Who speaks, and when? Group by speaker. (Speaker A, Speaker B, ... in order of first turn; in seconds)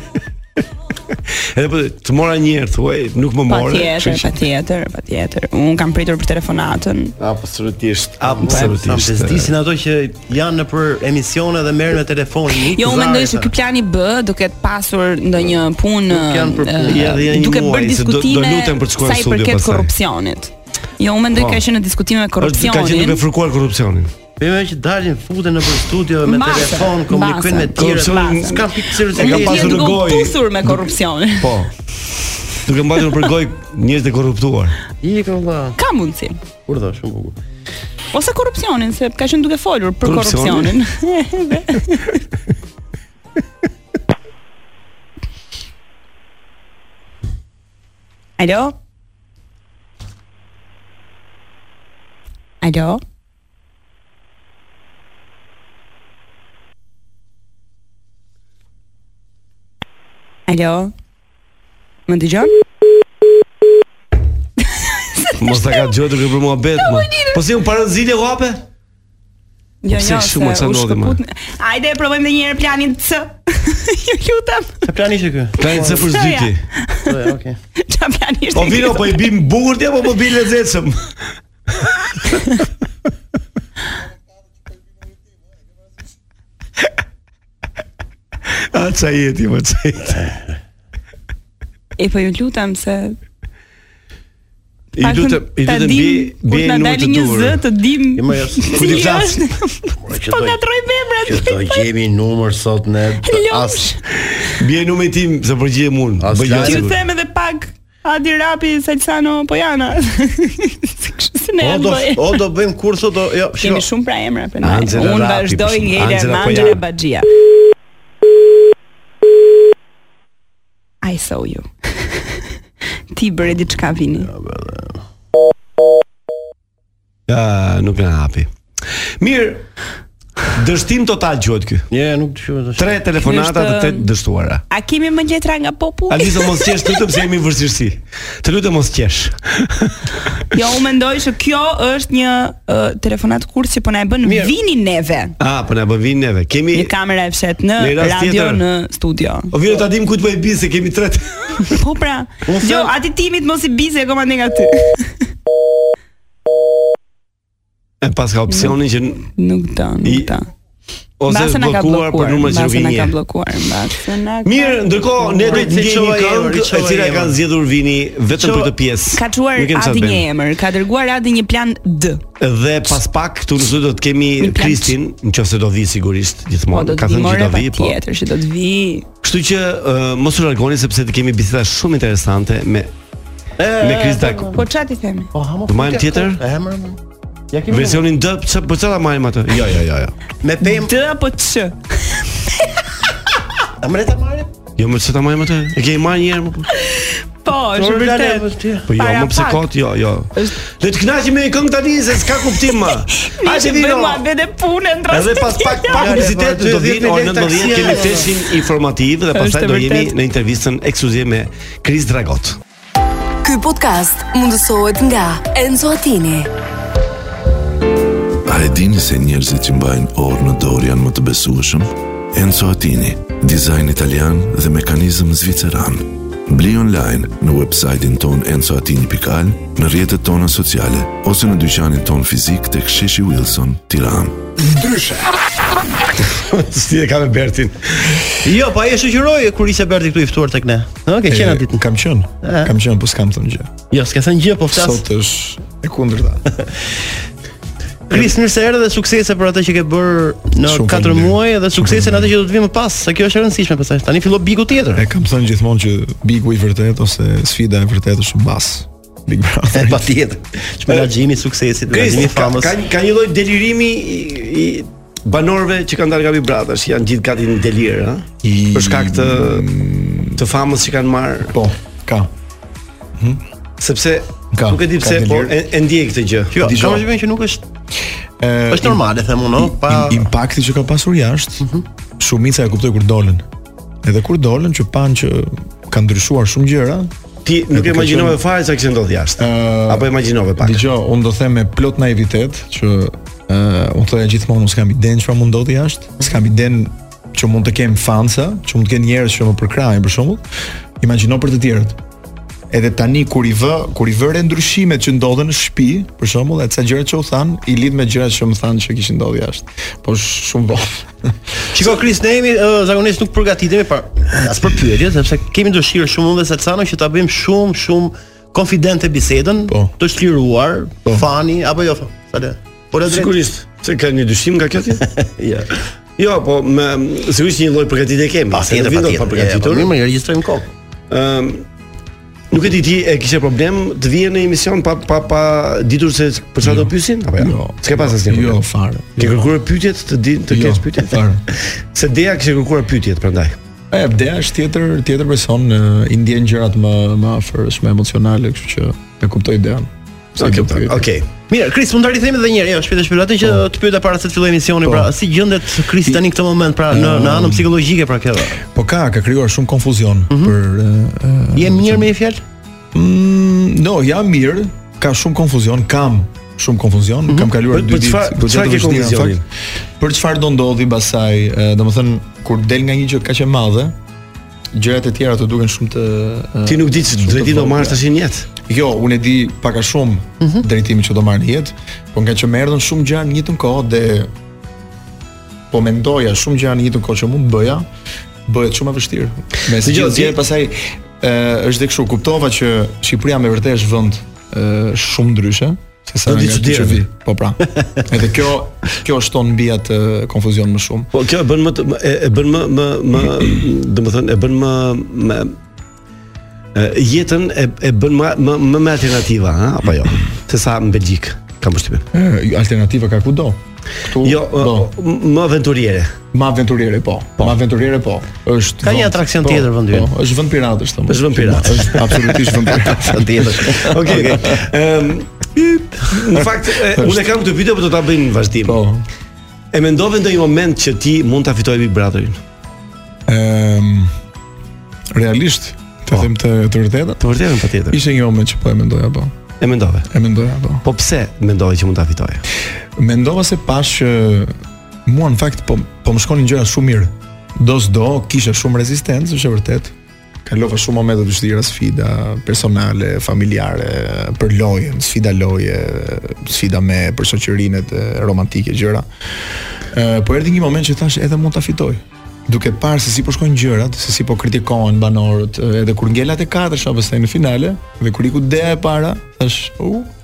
Speaker A: 1.1-4.3, 7.2-9.5, 16.8-19.9, 21.3-21.6, 22.4-24.1, 27.8-31.7, 32.6-34.8, 40.0-40.8, 65.4-68.7, 69.9-71.2, 75.6-76.6, 78.5-81.1, 88.5-90.2, 95.0-97.6, 98.7-99.4, 104.5-107.0, 114.6-116.8, 127.3-129.7, 130.5-131.8, 132.8-134.6, 136.1-140.0, 145.4-146.9, 147.8-148.6, 149.5-151.6, 158.0-159.2, 160.0-160.3, 161.2-163.2, 164.4-170.3, 172.4-178.0, 179.2-182.9, 183.8-184.6, 185.7-186.4, 187.7-190.1, 194.8-196.7, 198.9-204.2, 205.1-212.6, 236.2-238.3, 261.9-269.6, 270.4-271.6, 273.8-276.6, 287.4-290.8, 323.1-325.1, 326.2-329.9, 331.1-331.7, 332.5-338.6, 339.2-343.6, 350.4-351.3, 367.7-369.4, 376.6-378.5, 389.7-390.4, 396.2-397.1, 401.1-405.6, 406.7-412.1, 414.2-416.2, 421.1-422.6, 423.8-428.8, 429.7-432.4, 437.2-438.0, 439.6-440.1, 440.8-442.4
Speaker B: 3.5-7.1, 8.5-8.7, 12.5-23.2, 26.2-31.6, 35.8-36.4, 38.1-42.2, 48.4-48.8, 52.6-53.0, 60.5-60.9, 62.1-62.5, 64.6-65.9, 66.8-67.4, 69.8-74.8, 75.9-77.1, 77.8-79.3, 92.0-93.2, 95.0-101.8, 103.2-104.0, 106.5-112.4, 113.6-117.3, 121.0-122.5, 123.1-124.3, 133.2-134.1, 134.7-137.1, 140.5-145.3, 146.7-149.5, 151.6-155.2, 158.5-160.5, 161.3-165.7, 169.1-172.2, 174.4-174.9, 176.7-179.1, 184.5-185.3, 190.6-192.8, 196.7-199.7, 202.8-206.1, 209.3-210.1
Speaker C: 8.3-13.5, 16.1-17.2, 24.4-29.8, 35.0-35.8, 36.7-37.4, 74.8-76.1, 77.0-77.6, 98.1-99.1, 100.0-100.6, 101.2-103.9, 106.2-106.9, 111.6-113.9, 124.2-125.0, 131.9-133.0, 144.2-144.5, 152.5-152.9, 165.5-167.4, 168.3-168.7, 183.6-184.6, 185.3-187.0, 187.5-188.1, 190.4-190.9, 193.8-194.5, 197.8-198.9, 205.9-208.4, 238.4-241.8, 242.4-242.7, 243.9-245.1, 248.1-255.1, 259.7-262.8, 276.5-277.6, 278.7-280.3, 311.7-323.4, 325.1-325.8, 328.5-330.7, 351.5-358.6, 360.3-360.6, 361.5-362.4, 367.3-367.5, 418.8-420.1, 421.7-424.6
Speaker D: 213.4-216.5
Speaker E: 218.4-234.4
Speaker F: 241.3-243.7, 244.7-246.4, 250.6-252.3, 254.9-260.1, 268.4-270.4, 271.5-272.3, 273.2-273.4, 274.5-275.5, 276.6-277.1, 278.4-279.0, 279.6-281.6, 282.2-283.4, 284.0-287.1, 287.7-288.4, 289.4-300.4, 301.0-302.0, 302.7-311.3, 319.7-319.9, 336.6-339.5, 340.5-341.4, 343.9-351.1, 354.8-355.1, 356.9-357.7, 358.7-362.1, 362.9-369.4, 370.0-373.9, 374.7-378.0, 378.6-384.3, 385.7-387.9, 388.4-401.1, 412.1-414.9, 416.3-423.9, 426.3-427.3, 428.6-429.1, 433.3-434.1, 435.1-437.3, 437.9-439.3, 440.1-440.8, 443.0-449.9, 450.4-459.1, 459.9-470.1